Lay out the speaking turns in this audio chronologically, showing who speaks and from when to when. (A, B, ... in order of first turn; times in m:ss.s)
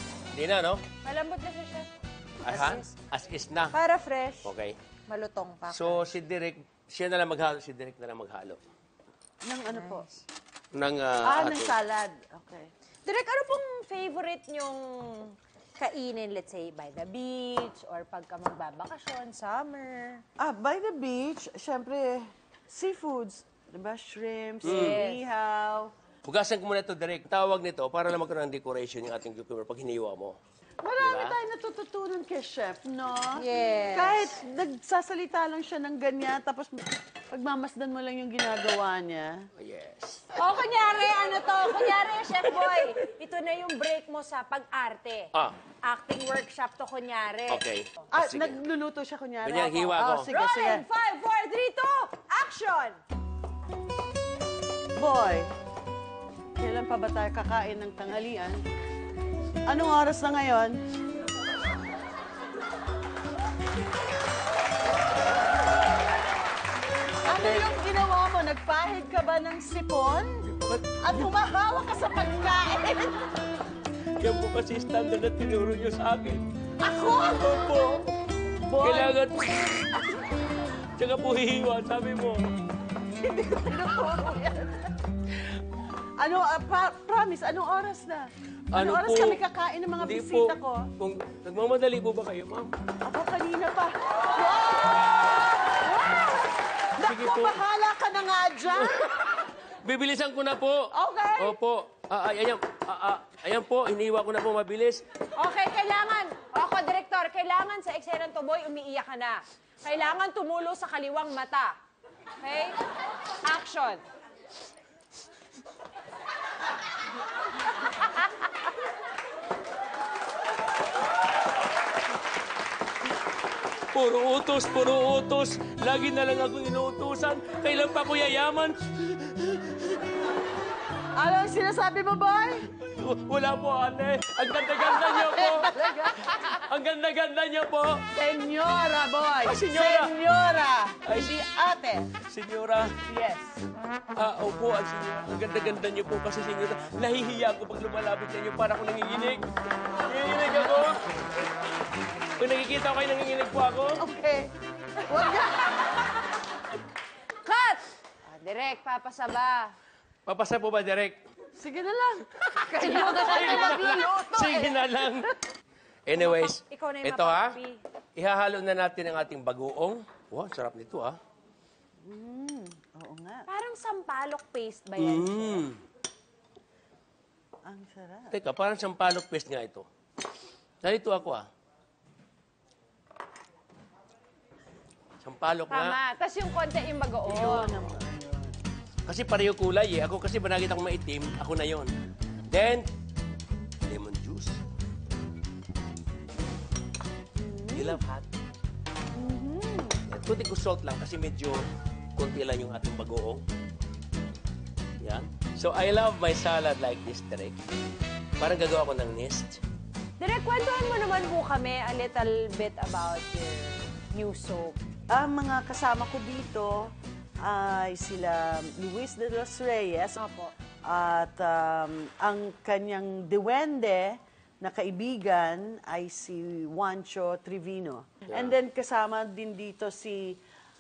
0:00.3-0:00.8 A
0:01.0-0:01.9 B
0:02.4-0:03.8 A
0:02.5-0:02.9 B
0:02.5-0:02.8 C
0:03.7-0:04.5 B
0:04.4-0:04.8 A
0:05.1-0:06.1 B
0:05.7-0:08.6 A
0:09.4-0:10.1 C
0:09.7-0:10.2 B
0:10.7-0:11.8 A
0:11.2-0:12.7 C
0:13.1-0:20.2 B
0:20.4-0:25.9 C
0:24.6-0:25.2 B
0:24.6-0:25.0 A
0:26.2-0:30.4 A
0:30.8-0:39.5 C
0:31.0-0:31.4 A
0:33.4-0:34.4 B
0:39.6-0:40.3 A
0:40.4-0:45.3 B
0:42.4-0:42.9 C
0:45.8-0:47.6 B
0:47.5-0:48.6 A
0:48.1-0:50.9 C
0:49.4-0:50.3 A
0:50.3-0:53.0 B
0:55.0-0:55.5 C
0:56.6-0:58.6 C
0:59.7-1:00.8 C
1:07.2-1:13.3 C
1:07.3-1:07.6 A
1:10.5-1:11.3 A
1:14.2-1:18.1 A
1:16.8-1:17.8 C
1:18.6-1:19.2 C
1:18.7-1:20.0 A
1:21.0-1:22.6 A
1:23.2-1:25.0 C
1:26.2-1:30.9 C
1:28.7-1:29.4 A
1:30.0-1:32.7 A
1:33.0-1:39.0 C
1:37.0-1:37.6 A
1:38.7-1:45.0 A
1:40.9-1:41.6 C
1:45.4-1:51.8 B
1:52.4-1:52.8 B
1:53.4-1:54.0 B
2:03.9-2:10.0 A
2:11.2-2:12.7 C
2:12.7-2:18.1 A
2:14.8-2:16.4 C
2:18.1-2:22.1 C
2:19.4-2:20.2 A
2:21.0-2:21.4 A
2:22.2-2:23.0 A
2:23.0-2:23.6 C
2:24.2-2:31.0 A
2:32.4-2:34.0 A
2:34.0-2:35.8 C
2:37.4-2:39.8 B
2:40.3-2:41.2 A
2:41.6-2:45.3 C
2:42.4-2:45.4 A
2:42.8-2:44.1 B
2:46.1-2:47.6 A
2:46.2-2:47.8 B
2:48.2-2:51.2 A
2:52.0-2:53.5 C
2:53.5-2:55.7 B
2:55.0-2:55.8 A
2:57.6-2:58.4 C
2:58.3-2:59.9 A
3:00.8-3:01.5 A
3:05.2-3:06.0 A
3:05.7-3:07.8 B
3:07.2-3:08.6 C
3:09.1-3:11.9 A
3:12.5-3:12.9 A
3:13.8-3:14.6 A
3:17.4-3:18.0 C
3:17.7-3:18.3 A
3:19.2-3:20.0 C
3:20.1-3:23.4 A
3:25.0-3:27.6 A
3:28.4-3:29.6 A
3:30.2-3:34.8 B
3:35.1-3:40.2 C
3:40.2-3:40.5 B
3:40.9-3:50.4 C
3:48.3-3:48.6 A